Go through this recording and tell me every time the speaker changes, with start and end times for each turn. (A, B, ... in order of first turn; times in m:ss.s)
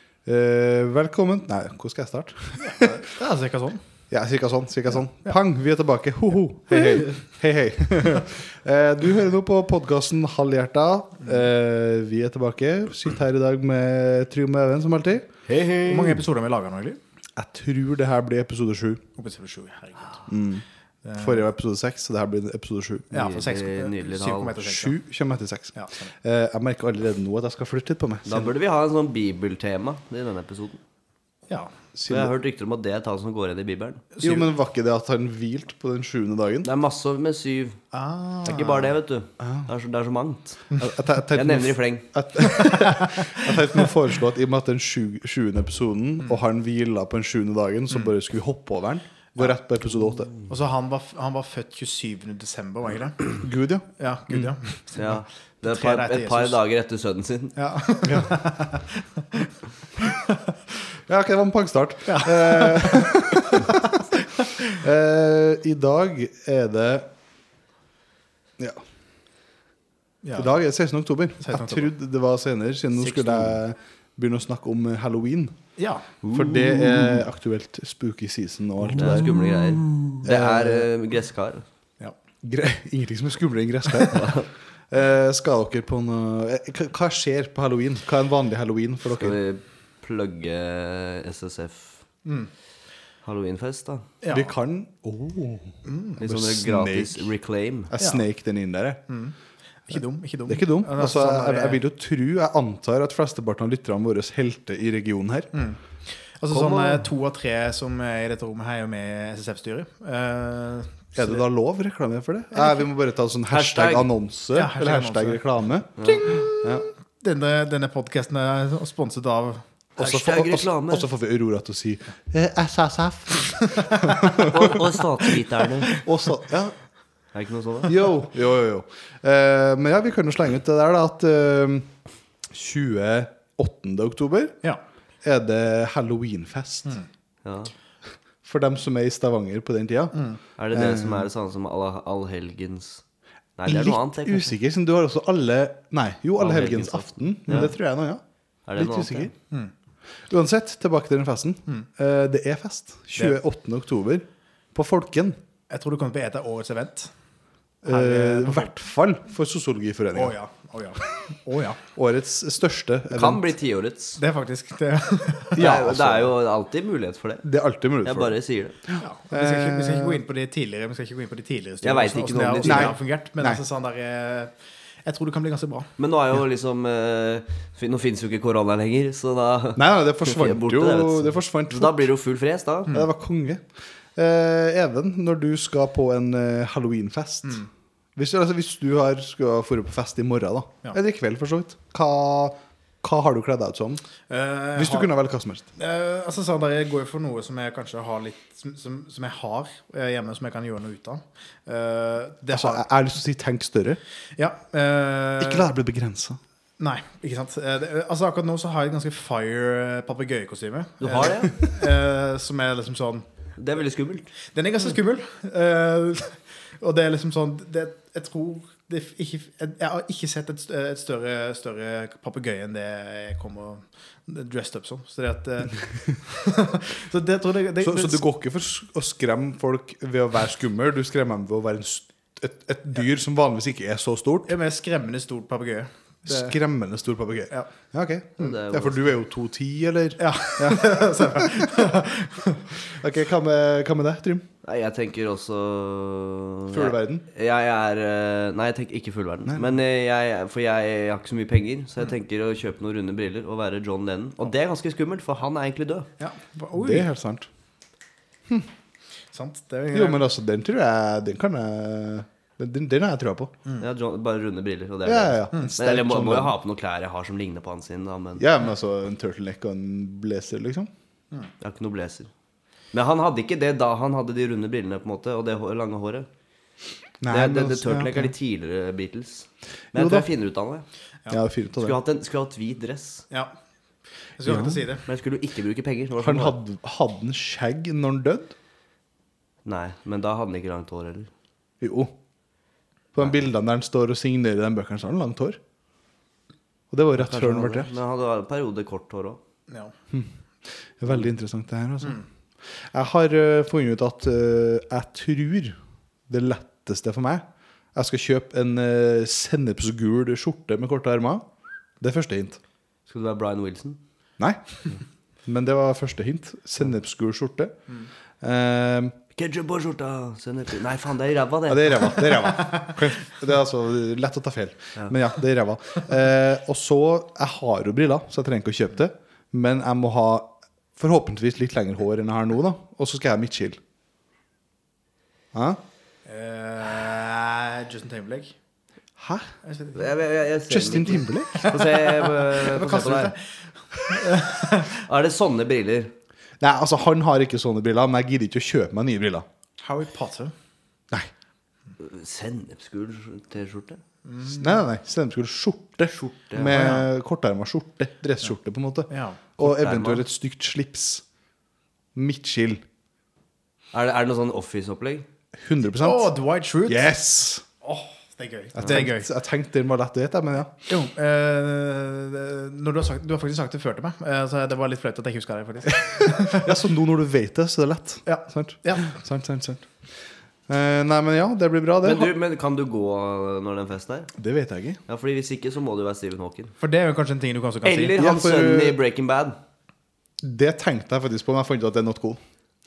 0:00.2-0:02.9 A
0:02.6-0:03.8 B
0:04.1-0:15.3 A
0:15.5-0:16.2 C
0:15.8-0:17.0 B
0:17.4-0:19.0 A
0:19.2-0:20.3 B
0:20.3-0:20.6 A
0:21.0-0:21.4 B
0:21.2-0:23.3 A
0:23.1-0:25.0 B
0:23.2-0:24.6 C
0:24.6-0:28.5 A
0:25.8-0:26.1 B
0:28.3-0:30.8 C
0:32.0-0:32.3 A
0:32.1-0:34.0 C
0:34.1-0:34.5 B
0:34.2-0:36.7 A
0:36.6-0:37.8 C
0:37.9-0:38.9 B
0:38.4-0:40.7 C
0:39.4-0:39.7 A
0:40.8-0:50.3 A
0:41.3-0:42.1 C
0:42.4-0:43.6 B
0:50.5-0:53.3 B
0:53.4-0:54.5 A
0:54.0-0:56.6 B
0:55.0-0:57.6 C
0:57.6-1:00.5 B
0:58.0-0:58.4 A
1:01.1-1:03.8 A
1:02.1-1:04.8 B
1:04.8-1:07.1 A
1:10.2-1:10.6 B
1:10.4-1:15.6 A
1:11.4-1:11.9 B
1:15.8-1:16.1 B
1:16.2-1:19.5 A
1:16.2-1:17.2 C
1:18.9-1:21.6 C
1:20.2-1:20.9 A
1:22.4-1:24.4 A
1:23.9-1:24.2 B
1:24.2-1:24.5 C
1:24.9-1:29.4 A
1:29.2-1:32.0 C
1:32.2-1:32.5 B
1:33.2-1:34.1 C
1:34.2-1:34.5 B
1:34.3-1:37.3 A
1:35.8-1:36.2 B
1:36.2-1:37.9 C
1:37.9-1:39.0 A
1:39.1-1:39.4 B
1:39.9-1:41.8 B
1:40.5-1:45.5 A
1:45.5-1:51.4 B
1:46.5-1:47.0 C
1:51.2-1:56.8 A
1:53.5-1:54.1 C
1:54.5-1:55.4 B
1:56.0-1:59.6 B
2:00.0-2:01.1 C
2:00.0-2:04.8 A
2:03.5-2:04.8 B
2:04.4-2:06.0 C
2:06.0-2:06.8 A
2:07.3-2:08.0 C
2:07.9-2:11.9 A
2:12.5-2:14.6 A
2:15.2-2:17.0 A
2:17.4-2:17.7 C
2:18.4-2:20.2 A
2:20.1-2:20.4 B
2:20.6-2:23.0 C
2:20.7-2:21.3 A
2:23.6-2:24.5 C
2:23.7-2:28.2 A
2:26.4-2:27.7 C
2:28.7-2:29.3 C
2:28.8-2:29.3 A
2:30.3-2:35.4 A
2:35.7-2:37.1 B
2:37.8-2:40.4 A
2:37.8-2:38.7 B
2:40.1-2:41.8 B
2:41.9-2:43.4 A
2:43.1-2:44.2 C
2:44.2-2:45.7 B
2:45.6-2:46.3 A
2:45.6-2:47.5 C
2:47.4-2:48.4 A
2:48.0-2:48.8 C
2:48.9-2:50.2 A
2:49.0-2:55.9 B
2:51.8-2:53.0 C
2:52.6-2:53.6 A
2:56.0-3:02.9 C
2:59.8-3:02.1 A
3:02.9-3:07.6 A
3:08.2-3:14.0 A
3:14.3-3:15.1 B
3:14.8-3:15.6 A
3:15.8-3:22.8 B
3:22.5-3:24.0 A
3:24.4-3:25.7 B
3:25.4-3:26.4 A
3:26.8-3:33.3 B
3:31.0-3:31.6 C
3:33.6-3:34.3 C
3:34.5-3:48.2 B
3:47.8-3:54.5 A
3:54.5-3:56.5 B
3:56.2-4:01.7 A
3:58.4-3:59.0 C
4:00.2-4:02.8 B
4:02.9-4:04.5 A
4:04.6-4:16.1 C
4:06.7-4:07.3 A
4:09.5-4:09.7 A
4:16.2-4:17.1 B
4:16.8-4:17.5 A
4:19.3-4:20.2 B
4:19.9-4:23.5 A
4:23.8-4:28.5 C
4:25.0-4:26.6 A
4:28.4-4:30.9 A
4:31.6-4:32.3 C
4:32.9-4:36.3 C
4:37.2-4:38.3 A
4:37.3-4:40.9 C
4:40.0-4:40.3 A
4:41.3-4:42.0 A
4:41.8-4:43.2 C
4:44.4-4:45.1 B
4:44.4-4:44.8 A
4:45.1-4:46.6 C
4:46.2-4:48.5 A
4:49.6-4:51.3 C
4:51.8-4:52.1 A
4:53.2-4:55.6 A
4:56.9-4:57.9 A
4:57.2-4:59.4 C
4:59.7-4:59.9 B
5:01.0-5:05.8 A
5:06.3-5:11.5 A
5:12.0-5:12.6 A
5:13.1-5:14.0 C
5:15.5-5:17.8 A
5:18.4-5:19.2 A
5:19.4-5:22.2 C
5:21.7-5:33.8 A
5:22.6-5:23.0 B
5:35.5-5:35.8 A
5:36.3-5:38.6 B
5:39.2-5:39.5 A
5:39.6-5:40.2 B
5:40.0-5:43.4 C
5:40.7-5:41.7 A
5:41.5-5:45.0 B
5:44.9-5:46.1 C
5:46.6-5:49.5 A
5:49.8-5:50.5 B
5:52.0-5:54.0 C
5:54.2-5:54.9 B
5:54.5-6:01.2 A
5:56.2-5:56.8 C
5:56.7-5:57.1 B
5:59.1-5:59.4 B
5:59.6-6:00.2 C
6:02.2-6:02.8 A
6:03.9-6:05.2 C
6:05.6-6:06.3 A
6:06.0-6:07.1 B
6:06.9-6:07.6 A
6:07.8-6:09.3 B
6:08.8-6:10.9 A
6:10.9-6:16.8 B
6:16.2-6:20.0 A
6:18.3-6:19.2 B
6:20.7-6:22.3 A
6:22.0-6:24.3 C
6:24.4-6:25.0 A
6:25.1-6:26.7 C
6:26.8-6:28.1 B
6:27.8-6:29.6 C
6:28.2-6:29.0 A
6:30.4-6:32.4 A